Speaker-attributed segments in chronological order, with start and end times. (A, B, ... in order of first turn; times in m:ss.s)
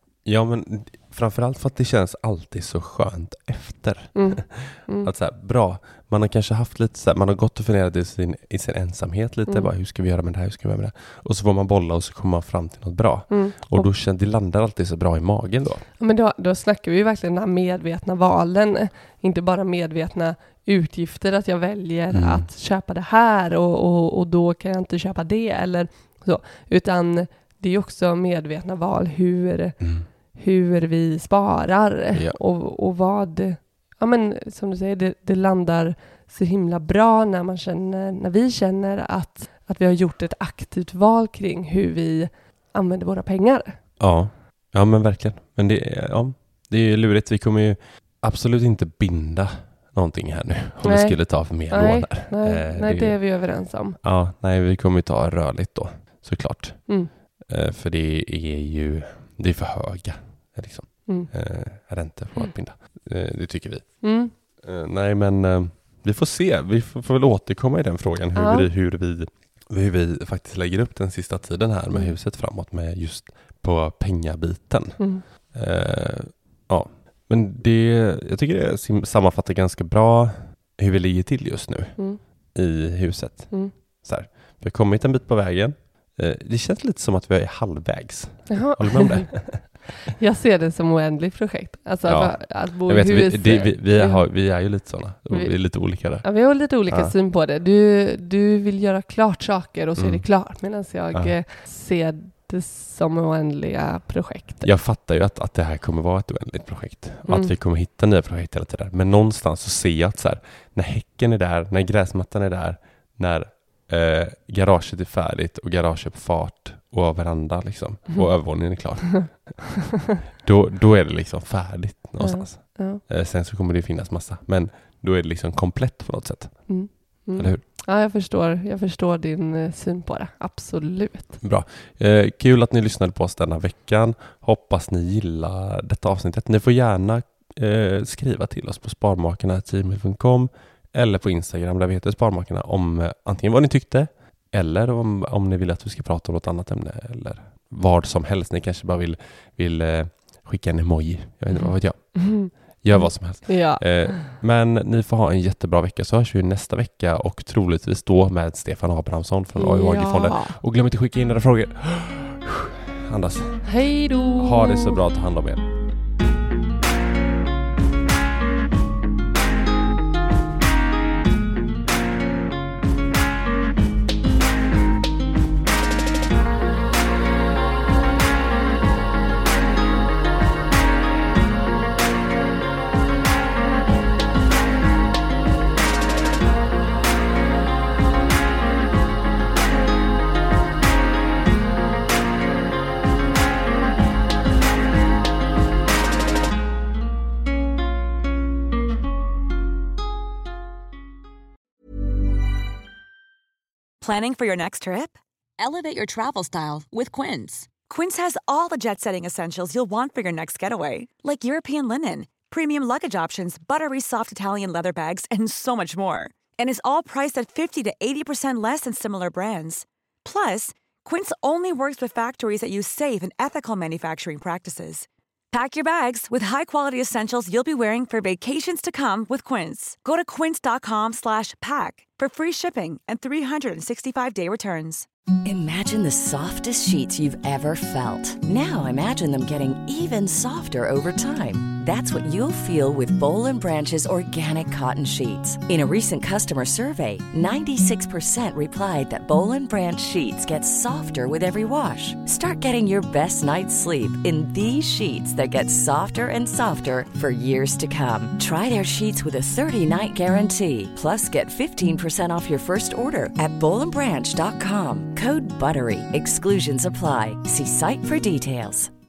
0:00.2-0:15.9 A
0:04.2-0:05.1 B
0:13.3-0:13.9 B
0:16.0-0:43.8 B
0:22.1-0:22.5 A
0:29.8-0:30.1 A
0:32.1-0:32.4 A
0:44.0-1:29.9 A
0:50.8-0:54.0 B
1:04.0-1:04.3 B
1:08.4-1:08.7 B
1:11.9-1:12.2 B
1:15.0-1:15.2 B
1:28.5-1:34.8 B
1:32.0-1:37.1 A
1:35.3-1:44.7 B
1:40.0-1:40.3 A
1:44.6-1:59.8 A
1:47.3-1:47.5 B
2:00.4-2:07.6 A
2:02.2-2:03.0 B
2:06.7-2:11.4 B
2:11.4-2:43.7 A
2:31.5-2:34.3 B
2:39.6-2:40.6 B
2:43.6-2:45.0 B
2:44.4-2:45.7 A
3:24.0-3:55.1 C
3:55.4-4:28.9 D